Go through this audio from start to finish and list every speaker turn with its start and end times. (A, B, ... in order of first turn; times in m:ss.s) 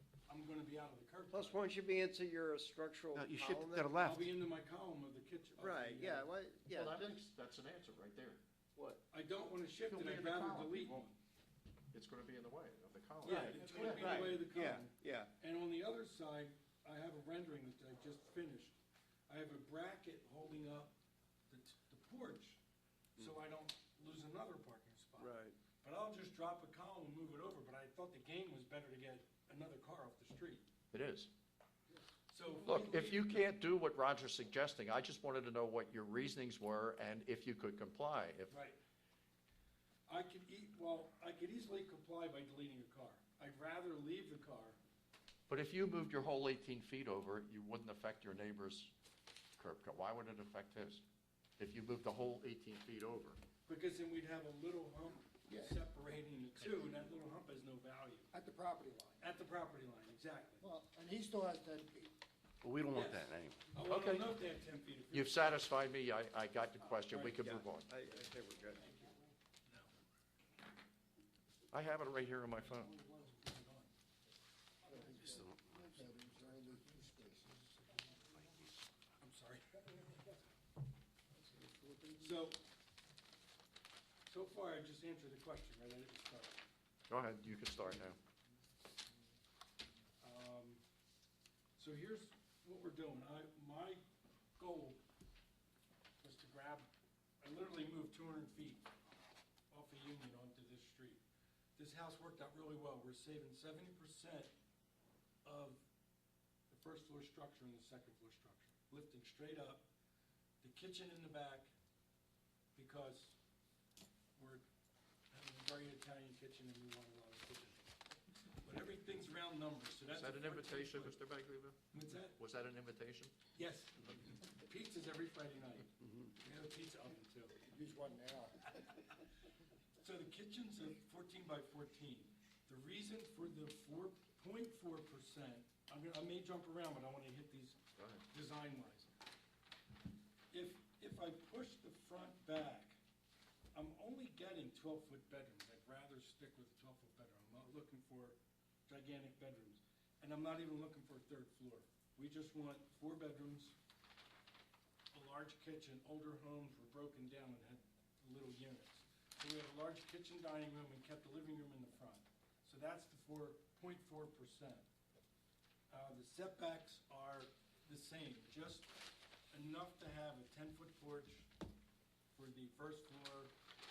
0:00.3-0:01.6 A
0:01.3-0:04.0 B
0:03.1-0:04.3 C
0:04.0-0:06.3 A
0:05.6-0:07.1 B
0:06.7-0:08.4 D
0:08.8-0:09.0 B
0:09.1-0:11.2 A
0:09.8-0:11.0 D
0:11.9-0:14.4 D
0:13.2-0:18.7 A
0:13.2-0:15.3 B
0:19.3-0:21.0 A
0:21.5-0:22.6 A
0:23.2-0:30.6 A
0:25.2-0:25.6 B
0:30.9-0:31.3 D
0:31.9-0:33.4 A
0:32.6-0:38.5 D
0:38.5-0:38.8 A
0:40.1-0:44.8 A
0:45.5-0:48.9 D
0:49.6-0:51.0 D
0:51.6-0:53.4 D
0:53.7-0:58.3 A
0:58.3-0:59.2 E
0:59.2-1:00.6 A
1:00.6-1:02.1 E
1:02.6-1:03.7 C
1:02.9-1:05.7 A
1:03.8-1:04.4 D
1:05.1-1:07.9 D
1:07.1-1:07.4 A
1:07.4-1:08.9 B
1:08.8-1:09.1 A
1:09.6-1:09.9 A
1:11.7-1:12.9 D
1:12.8-1:13.9 A
1:14.9-1:17.7 E
1:14.9-1:16.3 C
1:17.9-1:18.9 C
1:19.2-1:20.0 A
1:21.5-1:22.1 E
1:22.2-1:22.6 A
1:24.3-1:26.6 A
1:27.1-1:28.2 D
1:30.2-1:30.8 A
1:31.8-1:34.0 A
1:34.6-1:35.0 A
1:36.2-1:36.9 A
1:37.4-1:38.9 A
1:39.7-1:41.2 A
1:41.8-1:44.5 A
1:45.4-1:45.8 A
1:46.7-1:49.9 A
1:50.6-1:51.7 A
1:52.7-1:53.4 A
1:54.4-1:54.6 A
1:55.3-1:57.9 A
1:58.6-2:01.2 A
2:00.1-2:03.3 D
2:01.9-2:02.4 A
2:03.5-2:07.6 A
2:07.6-2:08.6 E
2:08.7-2:09.1 A
2:10.0-2:19.1 A
2:18.0-2:18.2 D
2:20.5-2:23.0 A
2:23.7-2:33.8 A
2:35.1-2:44.8 A
2:45.9-2:48.9 A
2:49.5-2:51.5 A
2:52.3-2:53.5 A